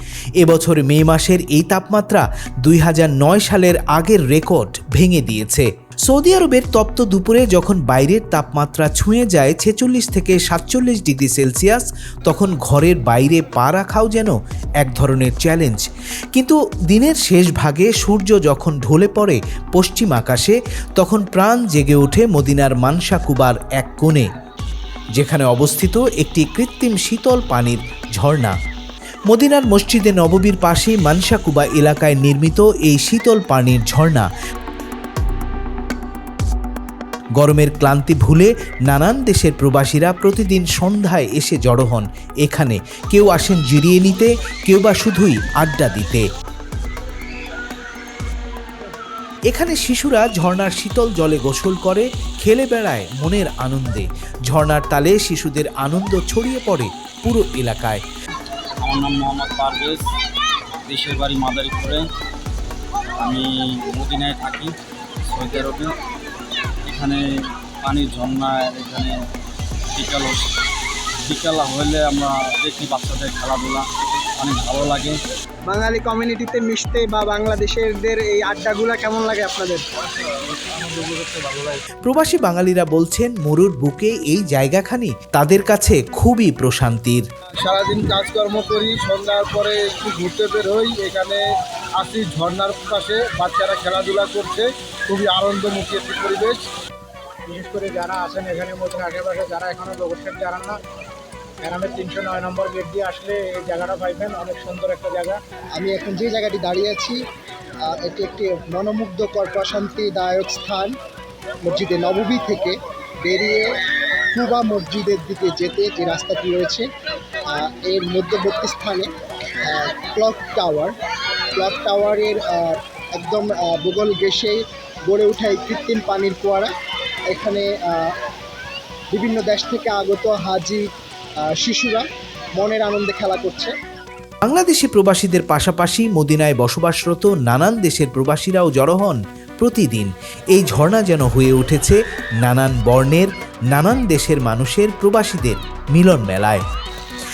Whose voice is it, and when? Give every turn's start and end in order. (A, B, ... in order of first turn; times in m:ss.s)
0:00.4-0:24.3 A
0:25.2-0:28.6 A
0:29.3-0:34.3 A
0:37.4-0:46.2 A
0:49.5-0:58.0 A
0:58.8-1:00.0 B
1:00.9-1:02.0 B
1:03.2-1:04.7 B
1:05.2-1:05.9 B
1:06.8-1:07.2 B
1:07.8-1:09.2 B
1:09.9-1:10.5 B
1:11.2-1:13.9 B
1:14.4-1:15.2 B
1:15.7-1:19.8 C
1:20.2-1:21.8 D
1:22.0-1:27.3 A
1:27.6-1:31.4 D
1:32.0-1:36.6 D
1:37.5-1:40.8 E
1:41.6-1:45.4 E
1:45.8-1:47.2 C
1:47.9-1:51.0 C
1:51.6-1:53.8 C
1:54.3-1:56.9 C
1:57.5-1:59.1 C
1:59.6-2:01.0 C
2:01.6-2:06.7 C
2:07.3-2:08.1 C
2:09.1-2:10.8 C
2:11.5-2:13.7 C
2:14.4-2:26.6 A